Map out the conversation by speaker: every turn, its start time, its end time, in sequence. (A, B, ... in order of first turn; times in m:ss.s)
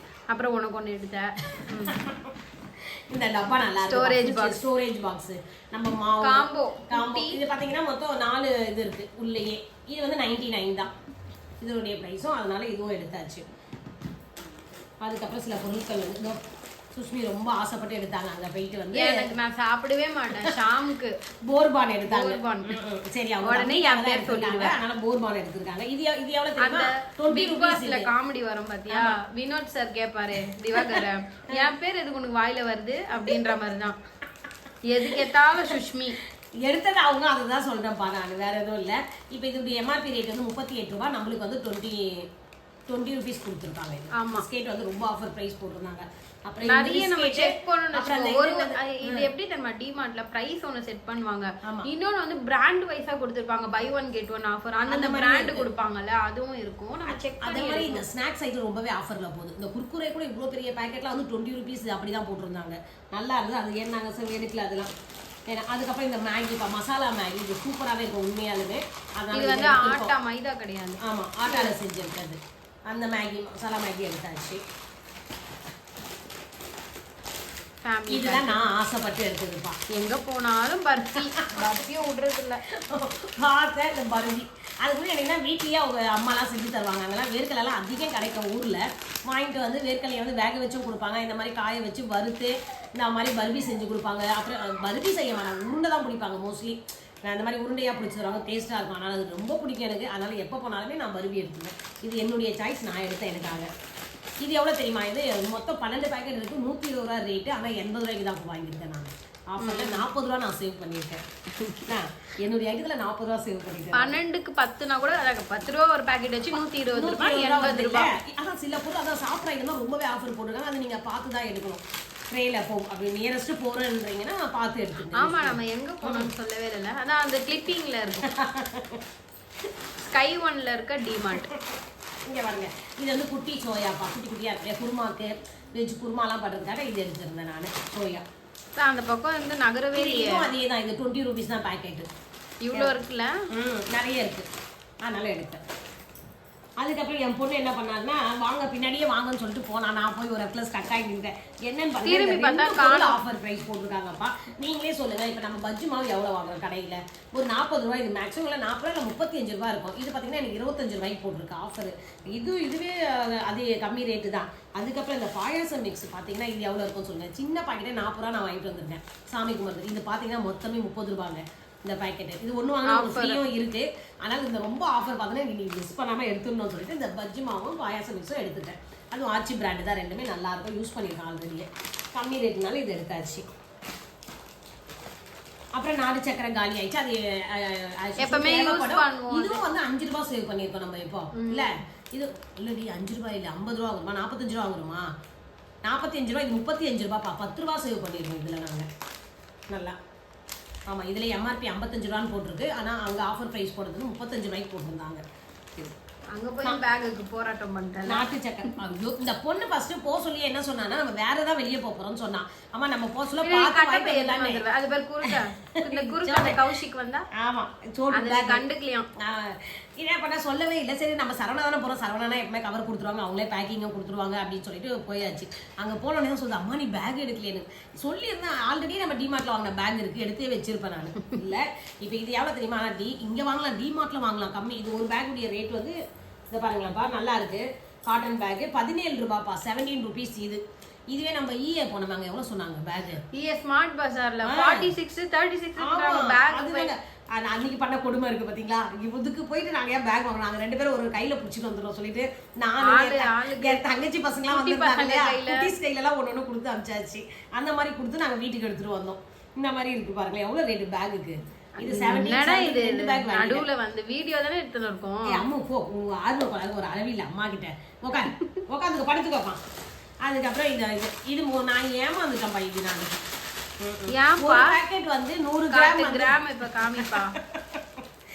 0:00.3-0:01.9 A
0:01.5-0:02.3 B
0:03.1-0:10.9 B
0:03.7-0:04.6 A
0:06.2-0:07.4 A
0:11.6-0:13.4 B
0:15.0-0:16.4 B
0:16.9-0:19.3 B
0:18.9-0:21.2 A
0:21.5-0:28.1 B
0:22.1-0:22.8 A
0:23.4-0:24.8 A
0:26.6-0:34.0 A
0:28.9-0:29.1 B
0:30.8-0:31.0 B
0:34.9-0:36.2 A
0:35.0-0:35.7 B
0:36.6-0:42.2 B
0:42.9-0:49.3 B
0:44.2-0:44.4 A
0:46.6-0:58.0 A
0:54.9-0:55.7 B
0:57.1-1:04.9 B
1:05.5-1:10.1 B
1:09.3-1:11.7 A
1:11.0-1:14.6 B
1:17.8-1:18.7 A
1:18.1-1:19.8 B
1:19.9-1:22.6 A
1:21.2-1:21.7 B
1:22.7-1:43.7 B
1:44.4-1:51.2 B
1:49.6-1:50.1 A
1:51.9-1:54.2 B
1:53.9-1:58.1 A
1:56.4-2:06.3 B
2:05.2-2:08.2 A
2:08.2-2:09.0 B
2:10.0-2:11.5 A
2:11.3-2:11.6 B
2:12.3-2:18.2 B
2:18.8-2:20.5 A
2:19.9-2:22.1 B
2:22.6-2:23.3 A
2:23.5-2:24.4 B
2:25.0-2:25.6 B
2:26.8-3:03.4 B
2:32.0-2:33.2 A
2:52.8-2:53.4 A
3:05.7-3:15.0 B
3:08.2-3:09.6 A
3:11.3-3:11.7 A
3:15.8-3:18.8 B
3:20.9-3:25.2 B
3:26.3-3:28.2 A
3:28.0-3:34.6 B
3:33.4-3:37.3 A
3:35.3-3:36.6 B
3:37.4-3:38.6 B
3:38.1-3:39.1 A
3:39.2-3:55.9 B
3:56.5-4:00.6 B
4:01.1-4:03.2 B
4:03.3-4:06.9 A
4:04.4-4:04.9 B
4:05.8-4:23.6 B
4:12.8-4:13.8 A
4:14.5-4:15.7 A
4:21.8-4:25.4 A
4:25.3-4:29.6 B
4:30.2-4:33.1 B
4:33.8-4:37.8 B
4:34.1-4:34.8 A
4:35.7-4:37.3 A